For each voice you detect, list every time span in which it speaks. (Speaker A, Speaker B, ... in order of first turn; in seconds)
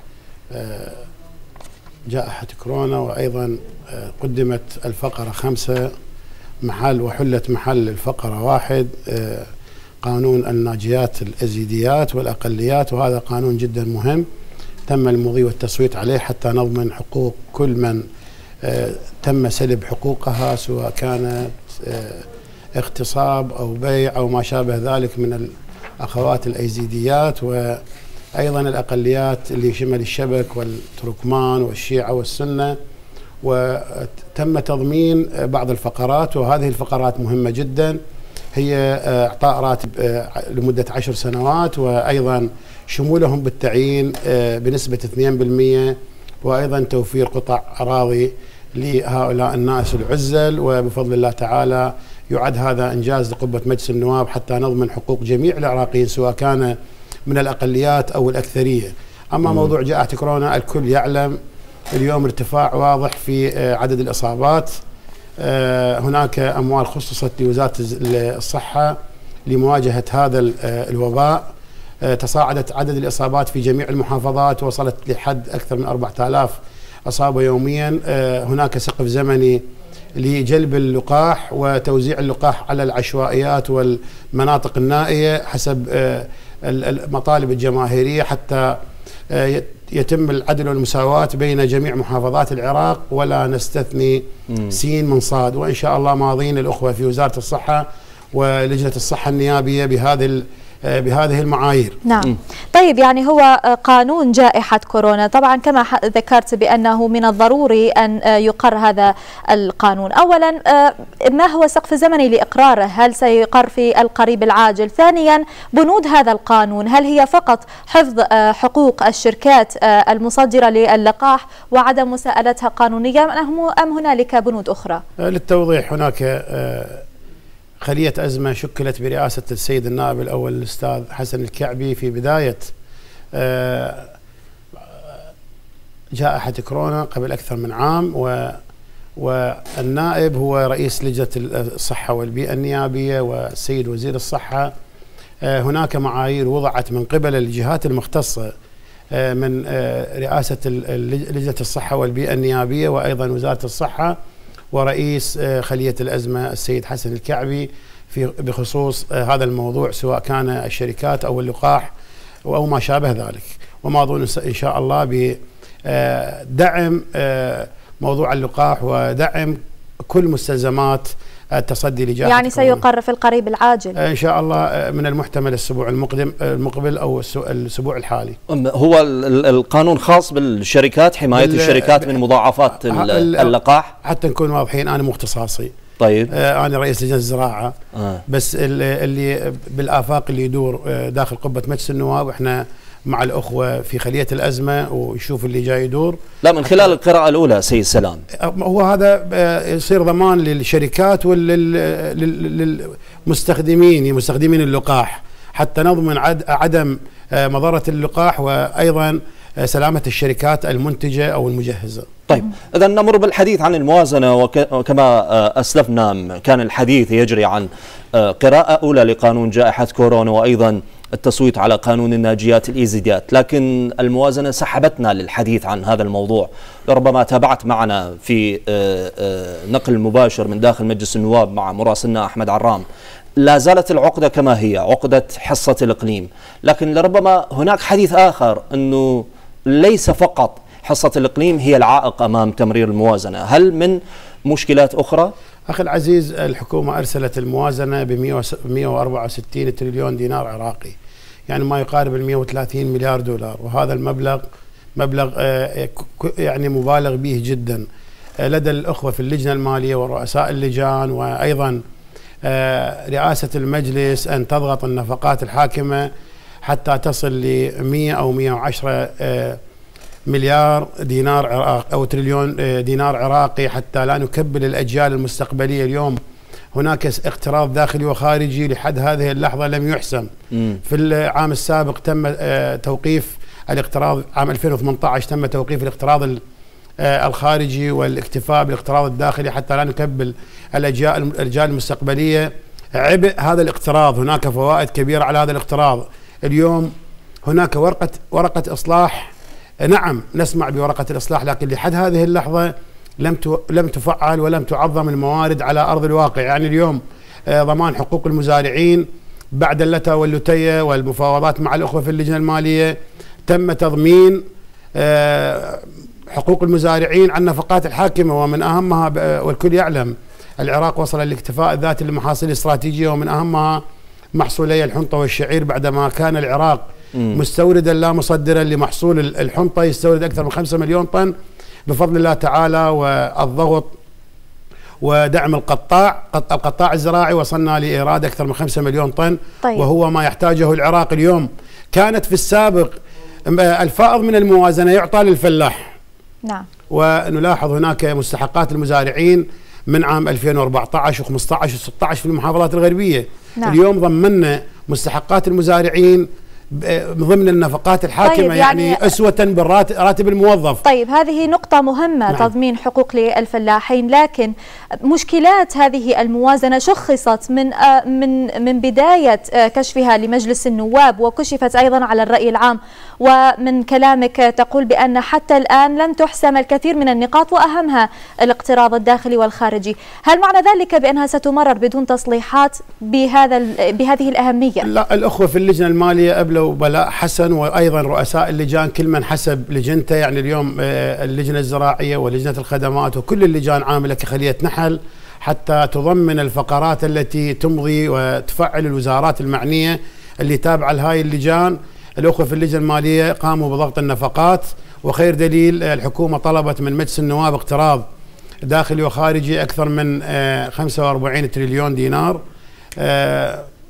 Speaker A: 0.5-1.1, 2.1-5.9, 6.6-9.5, 10.0-14.3, 14.9-18.0, 18.6-27.8, 28.4-32.8, 33.4-38.0, 38.5-56.8, 57.3-61.4, 61.9-64.8, 65.4-71.5, 72.0-79.6, 80.2-88.8, 89.3-102.0, 125.2-127.0, 127.8-132.7, 133.3-134.1, 136.1-138.6, 139.2-144.7, 145.4-148.5, 149.1-154.2, 154.7-161.9, 162.5-169.6, 170.1-172.8, 174.0-178.4, 181.3-182.2, 182.8-185.7, 186.3-187.8, 188.3-196.9, 198.4-212.1, 245.7-251.0, 251.5-254.4, 255.0-257.9, 258.4-261.8, 262.4-266.1, 266.6-269.6, 270.3-276.2, 276.7-280.3, 280.8-286.4, 287.0-296.9, 297.4-312.9, 313.5-314.4, 315.0-323.8, 324.3-331.3, 331.9-333.9, 335.0-342.9, 343.5-345.9, 346.9-360.8, 384.8-408.0, 408.6-412.4, 413.0-413.7
Speaker B: 102.0-125.0, 172.2-174.0, 358.2-359.0, 360.8-364.5, 365.0-384.9
Speaker C: 178.5-183.9, 186.0-186.3, 187.9-188.2, 196.4-198.2, 212.3-232.8, 233.4-245.3